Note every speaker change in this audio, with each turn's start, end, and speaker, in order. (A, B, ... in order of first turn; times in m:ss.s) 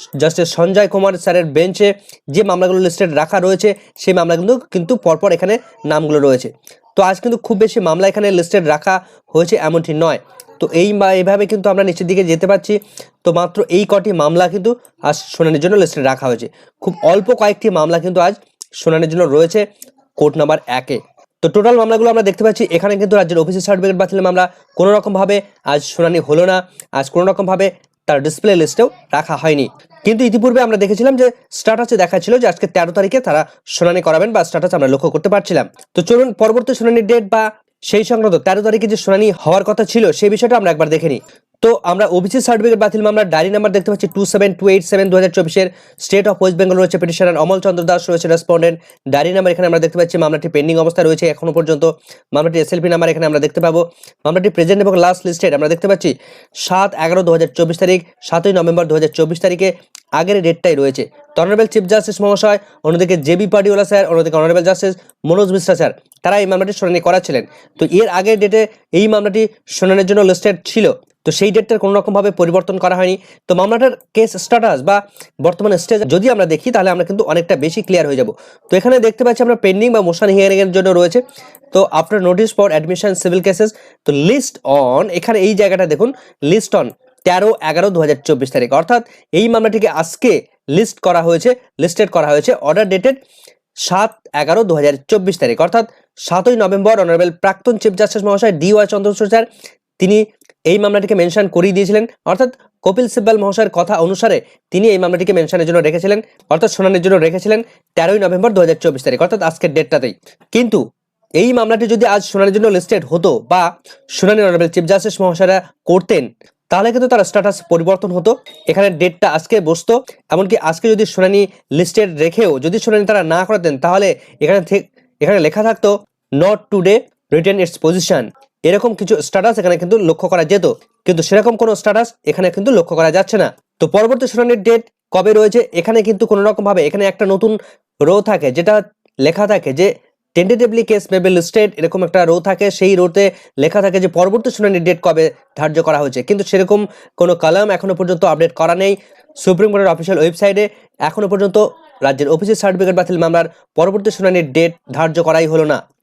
0:00.2-0:19.6 A
0:20.2-0:56.1 A
0:56.6-1:33.2 A
1:33.9-1:39.5 A
1:40.0-1:50.8 A
1:51.4-2:35.8 A